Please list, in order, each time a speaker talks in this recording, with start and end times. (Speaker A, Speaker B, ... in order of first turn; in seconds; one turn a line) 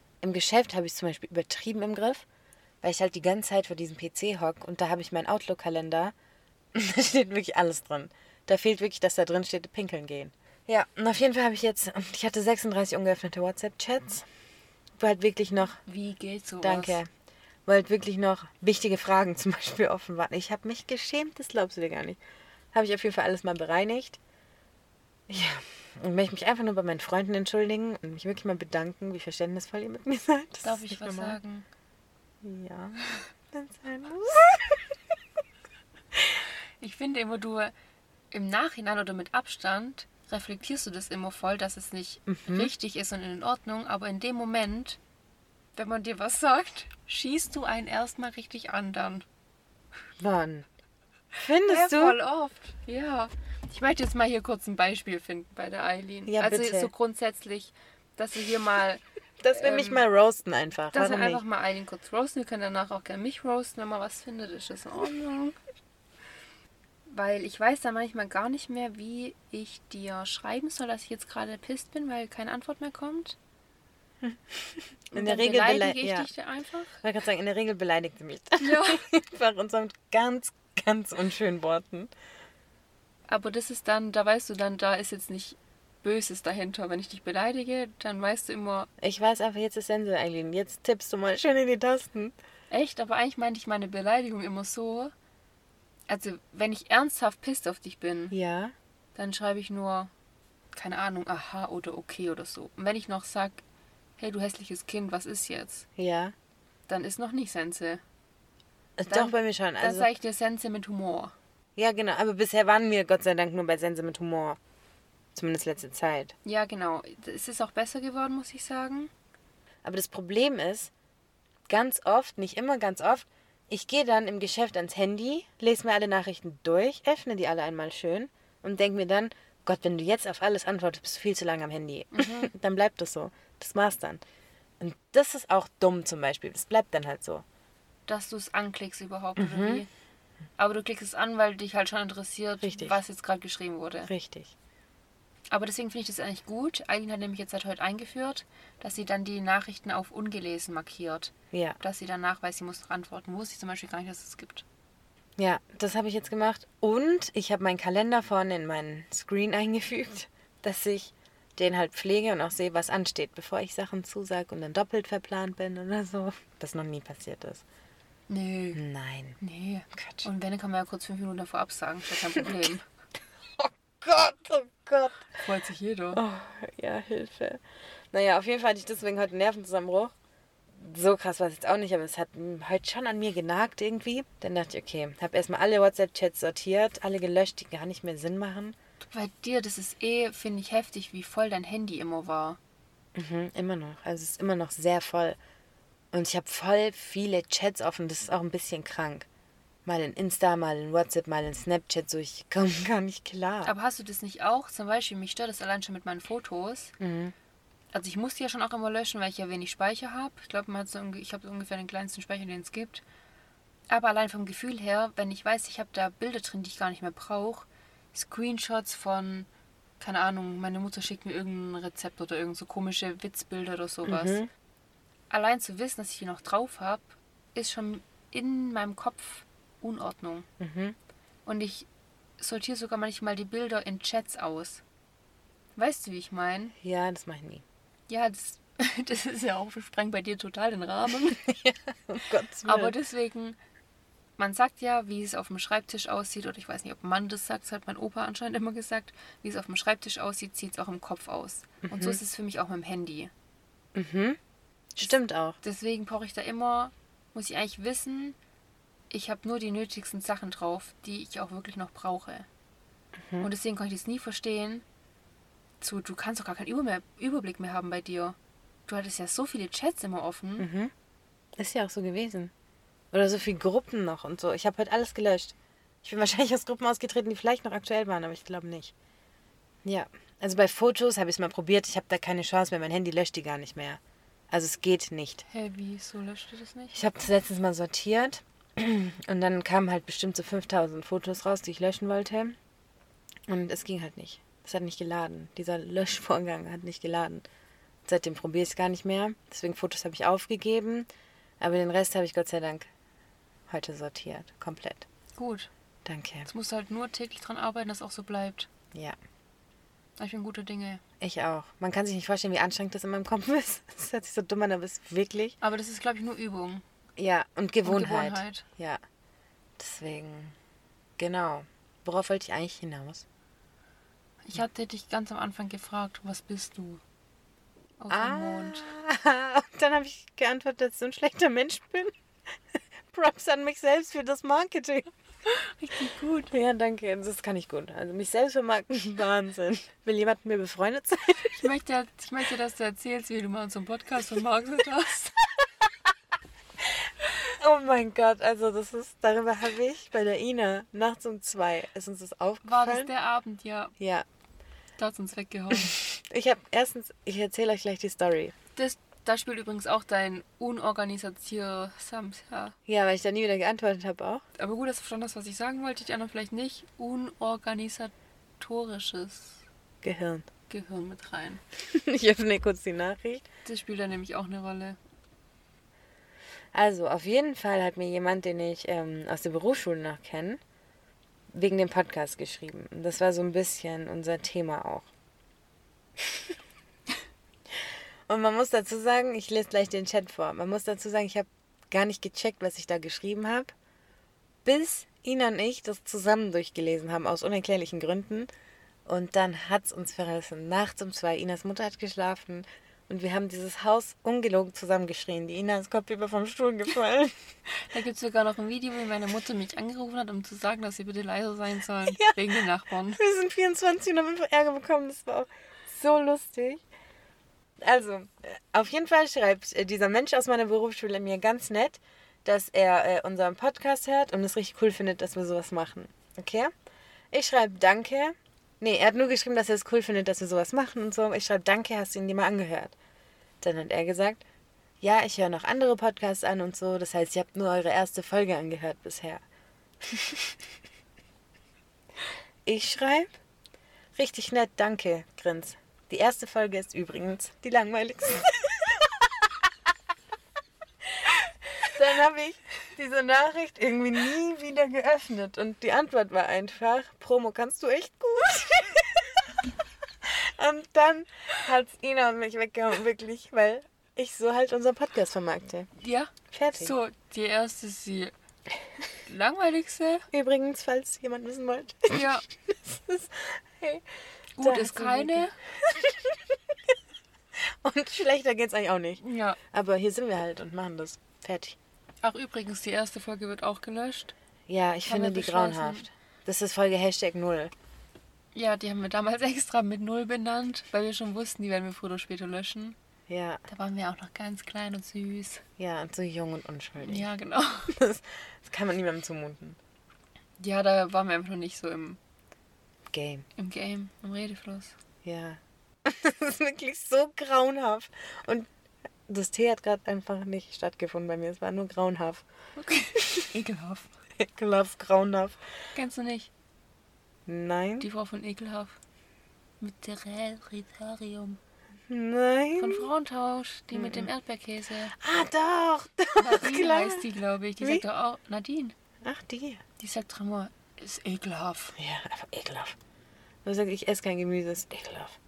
Speaker A: 0.2-2.2
Speaker A: 2.8-6.1
Speaker A: 6.7-14.2
Speaker A: 15.0-15.8
Speaker B: 15.8-17.0
Speaker A: 16.6-17.1
Speaker A: 17.6-22.2
Speaker A: 22.7-24.2
Speaker A: 25.3-31.4
Speaker B: 30.6-31.7
Speaker A: 32.4-34.8
Speaker B: 36.8-37.7
Speaker B: 38.3-45.0
Speaker A: 42.3-42.7
Speaker B: 45.7-49.2
Speaker A: 50.2-50.7
Speaker A: 51.4-52.2
Speaker B: 51.6-60.0
Speaker A: 56.3-56.9
Speaker A: 59.4-61.4
Speaker B: 60.9-65.5
Speaker B: 67.1-73.4
Speaker A: 74.2-76.3
Speaker B: 75.1-77.0
Speaker A: 77.0-82.1
Speaker B: 78.6-79.0
Speaker B: 83.3-88.9
Speaker A: 89.0-92.3
Speaker B: 92.7-95.1
Speaker B: 96.1-98.3
Speaker A: 98.3-98.7
Speaker B: 99.1-100.1
Speaker B: 100.7-103.6
Speaker B: 104.2-105.9
Speaker A: 106.0-106.3
Speaker B: 106.9-108.0
Speaker A: 109.0-110.1
Speaker B: 109.1-111.3
Speaker A: 111.8-114.6
Speaker A: 115.3-116.3
Speaker B: 116.4-119.1
Speaker A: 119.8-120.9
Speaker A: 121.7-134.2
Speaker B: 132.1-132.5
Speaker A: 134.8-137.4
Speaker B: 138.1-139.9
Speaker A: 139.4-139.8
Speaker B: 140.6-144.1
Speaker A: 142.6-143.0
Speaker A: 144.1-144.5
Speaker B: 145.5-154.6
Speaker A: 151.5-151.8
Speaker A: 155.4-167.6
Speaker B: 168.3-168.8
Speaker A: 168.7-169.4
Speaker B: 169.4-172.8
Speaker A: 169.9-170.2
Speaker A: 172.3-172.7
Speaker A: 173.6-175.3
Speaker B: 175.4-176.2
Speaker A: 176.1-177.6
Speaker A: 178.1-180.1
Speaker A: 180.8-188.8
Speaker B: 189.1-192.6
Speaker A: 193.1-195.4
Speaker A: 196.1-199.3
Speaker A: 199.8-203.7
Speaker B: 203.6-206.9
Speaker A: 207.0-207.3
Speaker B: 207.9-213.0
Speaker B: 213.9-219.5
Speaker B: 220.0-224.4
Speaker A: 224.1-224.5
Speaker B: 225.3-230.5
Speaker A: 230.6-230.9
Speaker B: 231.4-231.9
Speaker B: 232.4-234.8
Speaker B: 235.8-236.7
Speaker A: 236.8-237.6
Speaker B: 238.1-241.4
Speaker A: 241.4-242.9
Speaker B: 242.6-243.6
Speaker B: 244.4-253.3
Speaker A: 251.8-252.2
Speaker A: 253.9-254.4
Speaker A: 254.9-255.6
Speaker B: 255.0-258.4
Speaker B: 259.1-262.5
Speaker B: 263.4-264.8
Speaker B: 265.8-268.4
Speaker B: 268.9-270.7
Speaker A: 270.6-270.9
Speaker A: 271.6-272.5
Speaker A: 273.1-278.9
Speaker A: 279.8-284.0
Speaker A: 284.5-285.4
Speaker B: 285.4-287.0
Speaker A: 286.9-292.6
Speaker A: 293.5-297.4
Speaker A: 298.1-301.1
Speaker A: 301.6-302.9
Speaker A: 303.7-305.1
Speaker B: 305.4-305.7
Speaker A: 306.0-306.5
Speaker B: 306.5-308.7
Speaker B: 310.2-311.0
Speaker A: 311.2-315.6
Speaker B: 315.6-316.8
Speaker A: 317.2-319.0
Speaker B: 317.8-318.6
Speaker A: 319.8-320.5
Speaker A: 321.2-323.2
Speaker B: 324.4-327.0
Speaker B: 328.0-328.9
Speaker A: 328.1-332.1
Speaker A: 333.1-335.1
Speaker B: 335.5-336.5
Speaker A: 336.5-341.7
Speaker B: 341.6-345.4
Speaker A: 347.4-353.1
Speaker B: 352.6-353.9
Speaker A: 354.0-354.2
Speaker B: 355.0-355.9
Speaker A: 355.7-358.5
Speaker B: 358.8-362.8
Speaker A: 362.9-364.4
Speaker B: 364.6-369.6
Speaker A: 370.0-370.4
Speaker B: 370.7-371.6
Speaker A: 371.8-373.4
Speaker B: 373.6-375.0
Speaker A: 376.7-380.6
Speaker A: 381.5-385.1
Speaker A: 386.2-386.5
Speaker A: 388.3-393.7
Speaker A: 394.6-398.5
Speaker A: 399.1-407.3
Speaker B: 407.9-413.2
Speaker A: 412.1-416.8
Speaker A: 417.8-426.7
Speaker A: 427.3-432.9
Speaker A: 433.6-434.4
Speaker A: 435.0-439.4
Speaker A: 440.0-440.6
Speaker A: 442.6-443.3
Speaker A: 444.1-449.5
Speaker A: 451.1-459.6
Speaker A: 460.2-465.9
Speaker B: 466.0-468.3
Speaker A: 466.5-466.9
Speaker B: 469.2-470.2
Speaker A: 470.3-474.0
Speaker B: 472.1-472.4
Speaker B: 474.6-475.5
Speaker A: 474.6-476.5
Speaker A: 477.6-481.8
Speaker B: 479.2-479.6
Speaker B: 482.2-484.3
Speaker A: 484.7-487.7
Speaker B: 485.1-486.1
Speaker B: 488.5-493.0
Speaker A: 493.3-493.6
Speaker B: 493.7-495.6
Speaker A: 495.8-497.3
Speaker B: 497.0-497.9
Speaker A: 497.9-499.8
Speaker B: 500.6-502.2
Speaker A: 503.1-503.4
Speaker B: 503.6-504.9
Speaker A: 505.2-508.7
Speaker A: 509.3-512.4
Speaker B: 512.8-514.1
Speaker A: 514.4-515.6
Speaker B: 515.9-516.5
Speaker A: 517.5-518.1
Speaker B: 518.0-519.0
Speaker B: 519.8-521.6
Speaker A: 522.1-523.1
Speaker B: 522.8-525.1
Speaker A: 523.9-524.3
Speaker A: 525.1-527.2
Speaker B: 526.4-528.9
Speaker A: 529.2-529.8
Speaker B: 530.0-531.9
Speaker A: 532.0-533.0
Speaker A: 533.6-535.4